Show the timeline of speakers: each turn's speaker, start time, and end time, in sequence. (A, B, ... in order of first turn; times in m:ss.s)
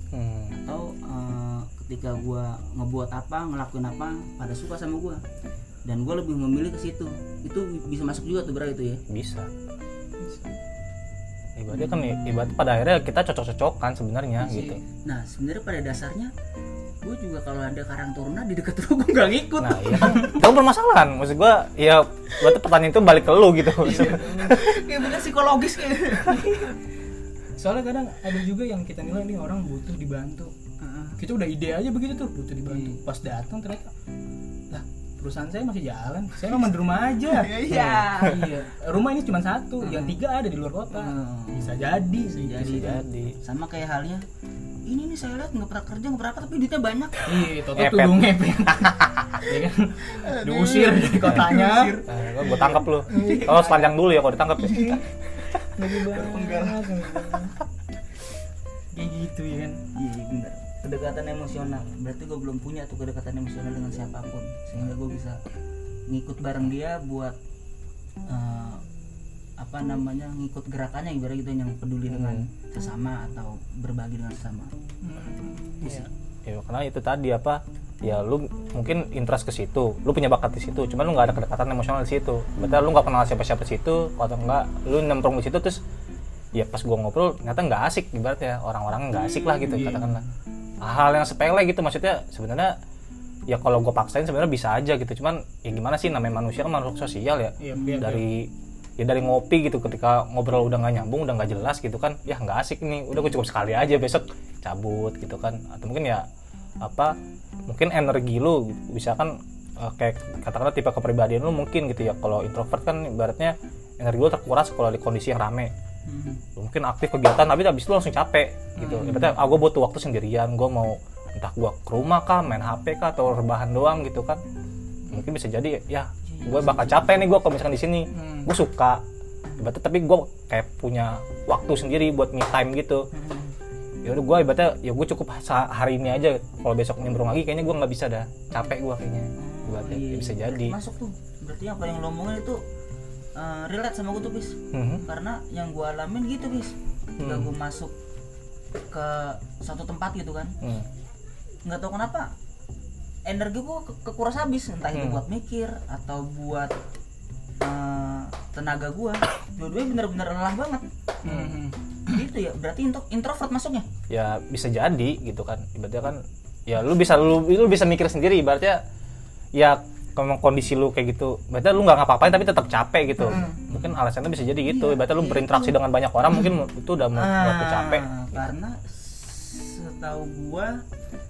0:00.1-0:00.5 A
0:00.6-0:05.2 B
0:05.8-0:09.0 B
0:09.1-0:09.5 A
0:10.2-0:10.5 C
0:11.6-0:14.8 A
0:11.8-0:12.2 B
0:14.4-0:14.8 C
0:14.9-0:16.3 B
0:17.0-0:20.3 B
0:19.6-0:24.7 A
0:19.9-0:20.4 C
0:23.8-0:26.7 B
0:23.8-0:24.6 C
0:26.3-0:26.7 C
0:27.6-0:33.9 C
0:32.7-0:33.0 B
0:34.7-0:43.0 C
0:37.3-0:38.4 B
0:39.8-0:40.2 B
0:40.9-0:44.2 B
0:42.6-0:43.4 A
0:44.8-0:47.4 B
0:47.2-0:53.8 C
0:47.8-0:49.4 A
0:50.2-0:53.9 B
0:52.1-0:55.5 A
0:54.6-0:55.0 C
0:55.6-0:57.6 C
0:56.1-0:57.2 B
0:58.9-0:59.8 C
0:59.9-1:05.4 B
1:06.1-1:07.4 B
1:08.3-1:08.8 B
1:09.6-1:14.7 B
1:12.1-1:12.4 A
1:15.0-1:16.1 C
1:15.8-1:25.8 A
1:26.5-1:30.2 A
1:29.1-1:30.1 B
1:29.6-1:30.2 C
1:30.8-1:32.8 A
1:33.5-1:46.3 A
1:37.6-1:38.2 C
1:46.8-1:47.1 A
1:47.7-1:55.7 A
1:56.0-1:56.4 B
1:56.6-2:04.4 A
1:58.8-1:59.3 C
2:05.1-2:09.0 A
2:06.2-2:07.2 B
2:08.1-2:08.5 C
2:09.6-2:13.1 A
2:13.1-2:13.5 B
2:14.0-2:20.8 A
2:19.4-2:22.6 B
2:23.3-2:27.9 B
2:24.7-2:25.0 A
2:27.2-2:27.5 A
2:28.9-2:30.6 B
2:30.6-2:30.9 A
2:31.6-2:32.3 B
2:33.2-2:36.8 B
2:34.9-2:35.2 A
2:37.6-2:41.4 B
2:41.2-2:42.1 C
2:42.1-2:43.8 B
2:44.1-2:48.8 A
2:49.5-2:58.5 A
2:53.2-2:53.8 B
2:54.6-2:55.7 B
2:56.3-2:56.5 B
2:57.1-3:00.8 B